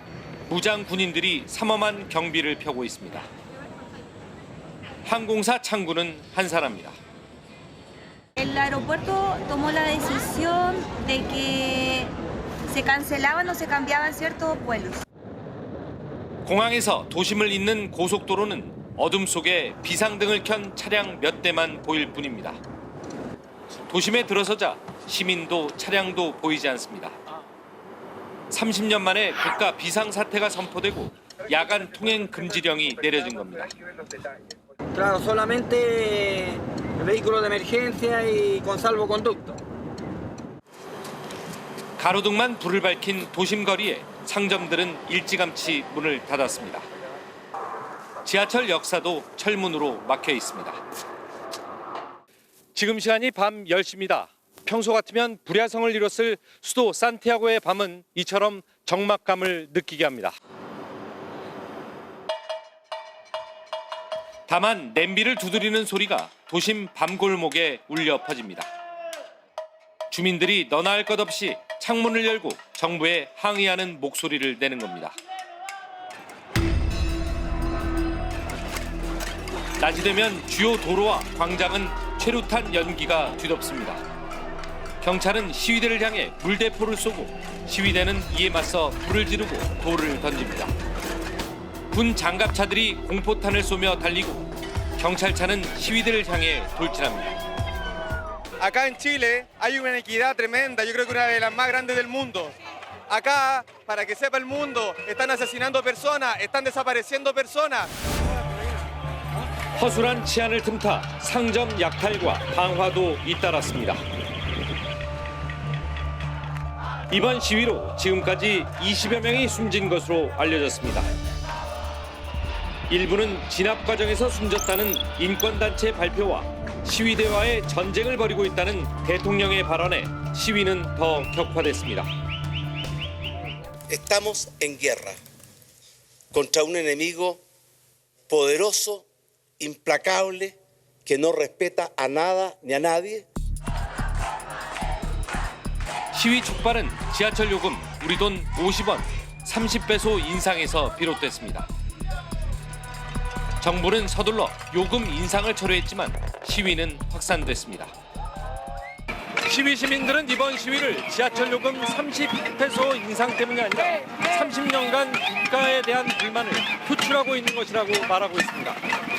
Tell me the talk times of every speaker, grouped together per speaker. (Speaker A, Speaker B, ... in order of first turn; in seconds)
Speaker A: 0.5-3.3, 5.0-7.0, 16.4-22.6, 23.9-27.2, 28.5-33.7, 42.0-46.9, 48.2-50.8, 52.8-60.4, 64.5-68.7, 70.1-75.2, 79.8-84.0, 85.0-90.7, 91.9-94.5, 95.0-97.4, 109.8-114.0, 117.1-121.1, 122.9-132.1, 146.1-151.7, 153.6-157.9, 159.5-168.8
Speaker B: 8.4-12.1, 12.7-15.0
Speaker C: 35.0-39.5
Speaker D: 98.6-102.5, 103.1-107.9
Speaker E: 133.9-135.2, 136.3-137.4, 138.3-139.1, 139.6-143.2